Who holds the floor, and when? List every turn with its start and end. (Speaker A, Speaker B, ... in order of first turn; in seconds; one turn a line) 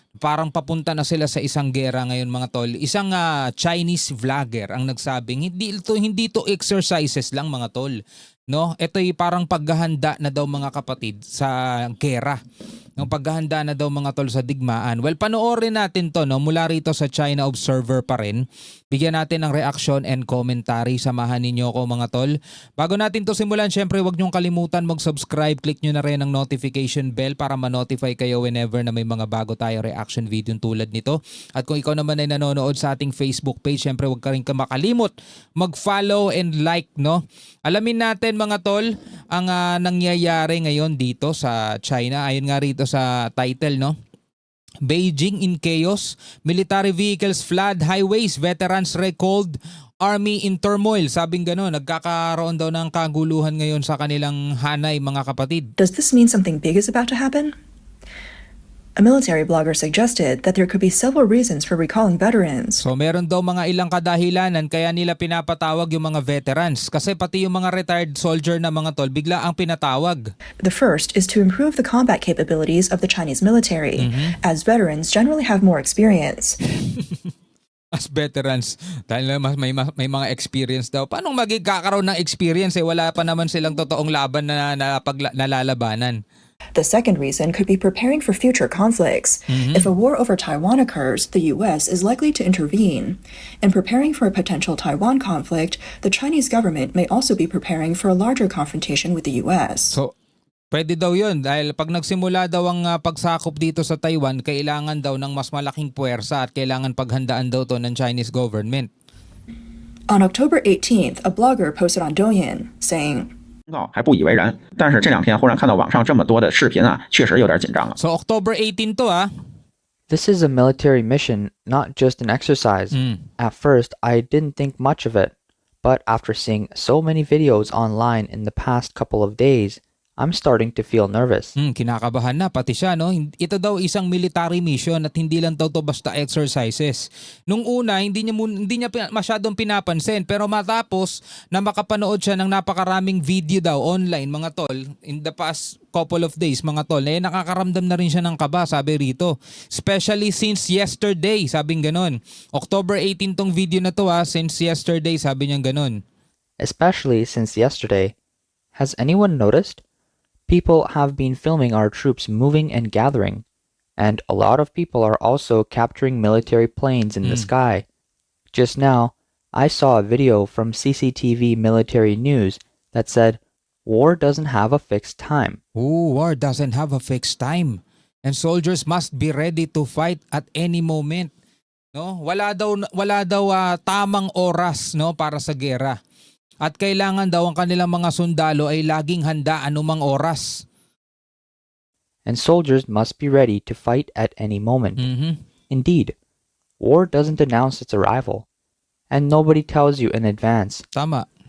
Speaker A: 0.2-8.0
Speaker A: 8.5-12.4
Speaker A: 13.0-43.9
Speaker A: 44.8-55.7
Speaker B: 55.8-57.5
Speaker B: 59.0-62.8
Speaker A: 62.8-70.2
Speaker B: 70.6-76.6
Speaker A: 74.0-74.3
Speaker A: 76.8-77.2
Speaker A: 78.0-86.2
Speaker B: 86.7-100.0
Speaker A: 89.5-89.9
Speaker A: 100.7-108.9
Speaker B: 110.1-113.3
Speaker C: 113.7-118.0
Speaker A: 118.0-119.3
Speaker D: 120.1-131.6
Speaker A: 122.9-123.2
Speaker A: 131.6-156.0
Speaker D: 156.6-158.1
Speaker D: 158.7-159.8
Speaker D: 160.5-163.4
Speaker D: 164.0-167.8
Speaker A: 167.2-167.5
Speaker D: 168.5-175.6
Speaker A: 175.8-181.3
Speaker A: 181.9-185.9
Speaker A: 186.6-190.5
Speaker D: 192.2-195.0
Speaker A: 195.0-195.4
Speaker D: 195.7-196.1
Speaker D: 196.8-198.4
Speaker D: 199.1-200.8
Speaker A: 200.9-201.2